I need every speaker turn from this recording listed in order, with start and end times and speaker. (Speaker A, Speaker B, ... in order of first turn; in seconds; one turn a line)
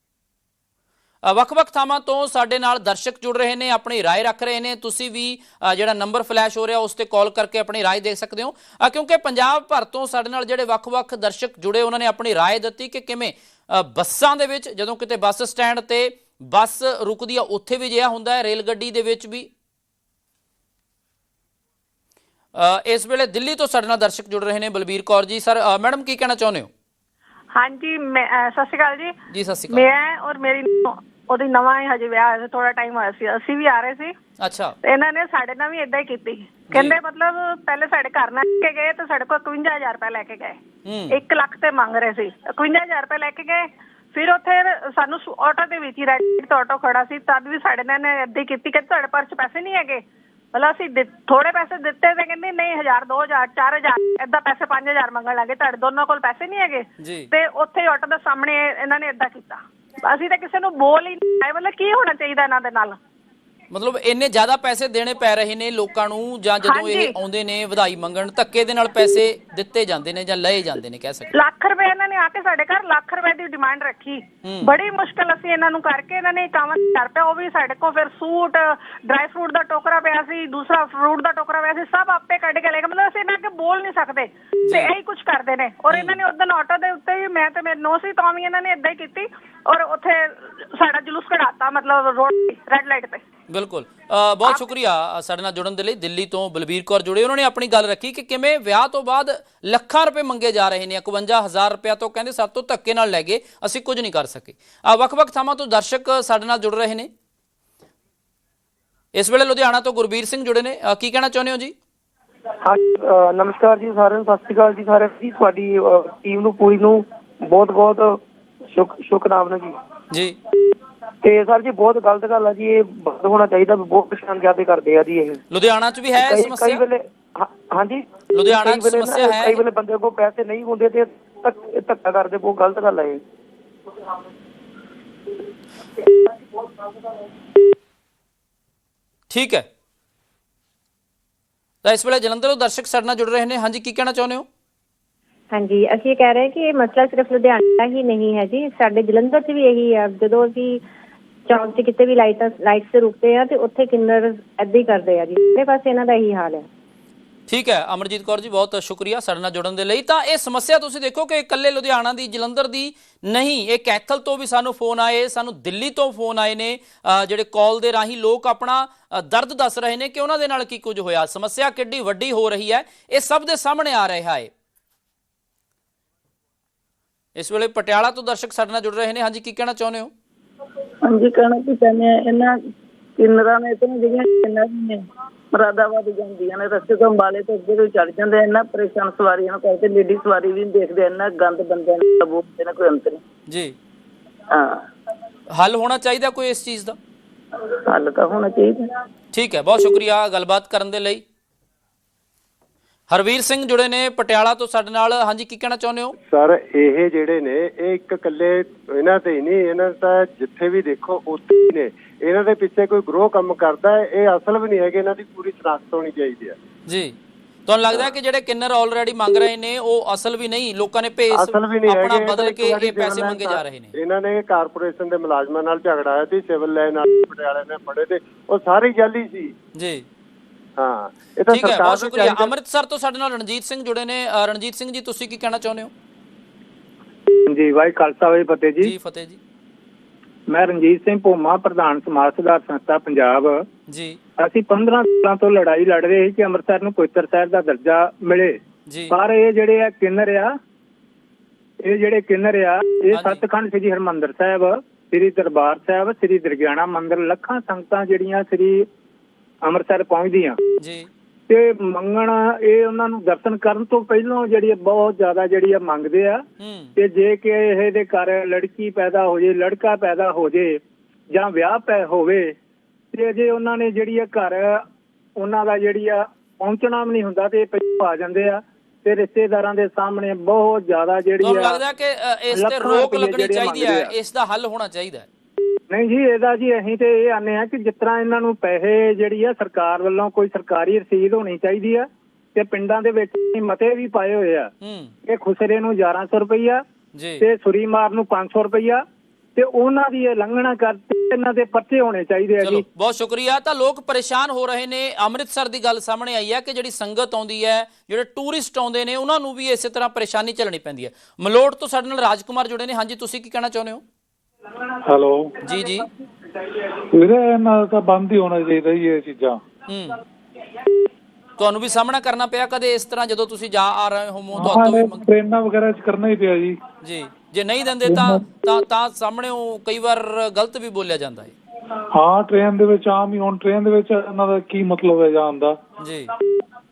Speaker A: 1.2-19.5
Speaker A: 22.5-26.7
Speaker B: 27.5-29.1
Speaker A: 29.3-29.8
Speaker B: 29.7-34.1
Speaker A: 34.4-34.8
Speaker B: 34.8-40.6
Speaker A: 40.8-41.2
Speaker B: 41.1-63.0
Speaker A: 57.0-57.3
Speaker A: 63.7-71.3
Speaker B: 66.6-67.1
Speaker B: 71.3-93.2
Speaker A: 74.4-74.7
Speaker A: 84.6-84.9
Speaker A: 85.9-86.2
Speaker A: 93.5-107.1
Speaker A: 109.1-111.7
Speaker C: 112.6-119.8
Speaker A: 120.1-120.3
Speaker C: 121.2-125.4
Speaker A: 125.5-126.8
Speaker C: 126.2-133.2
Speaker A: 128.3-129.6
Speaker A: 139.3-139.7
Speaker A: 141.8-144.5
Speaker D: 145.5-150.8
Speaker D: 151.5-156.7
Speaker A: 157.5-174.5
Speaker A: 177.3-180.1
Speaker E: 181.0-182.5
Speaker E: 183.2-185.0
Speaker E: 185.5-193.2
Speaker A: 193.5-193.7
Speaker A: 195.5-196.9
Speaker E: 197.8-198.8
Speaker A: 199.3-201.2
Speaker A: 203.1-206.1
Speaker F: 206.2-216.6
Speaker A: 216.9-217.1
Speaker A: 217.7-223.9
Speaker F: 221.3-229.5
Speaker A: 229.7-230.0
Speaker F: 230.8-232.5
Speaker A: 231.5-235.9
Speaker G: 237.4-238.9
Speaker A: 238.8-239.4
Speaker G: 240.5-243.6
Speaker A: 243.9-244.2
Speaker G: 244.4-250.5
Speaker A: 248.9-249.1
Speaker G: 251.8-258.9
Speaker A: 253.1-253.4
Speaker G: 259.6-260.6
Speaker A: 260.8-261.1
Speaker G: 261.5-266.4
Speaker A: 266.6-266.9
Speaker G: 267.0-270.8
Speaker G: 271.3-272.5
Speaker G: 273.1-274.8
Speaker G: 275.4-281.8
Speaker A: 281.4-285.3
Speaker G: 282.5-284.1
Speaker G: 285.9-294.7
Speaker A: 294.8-295.1
Speaker G: 295.3-296.8
Speaker A: 297.1-297.4
Speaker G: 297.4-299.0
Speaker G: 299.6-302.8
Speaker A: 302.6-314.0
Speaker H: 315.0-315.6
Speaker A: 315.6-316.1
Speaker H: 317.1-319.6
Speaker A: 319.9-320.2
Speaker A: 321.6-325.3
Speaker H: 324.5-326.8
Speaker A: 327.0-331.5
Speaker H: 328.0-328.4
Speaker H: 332.1-335.8
Speaker A: 336.0-336.3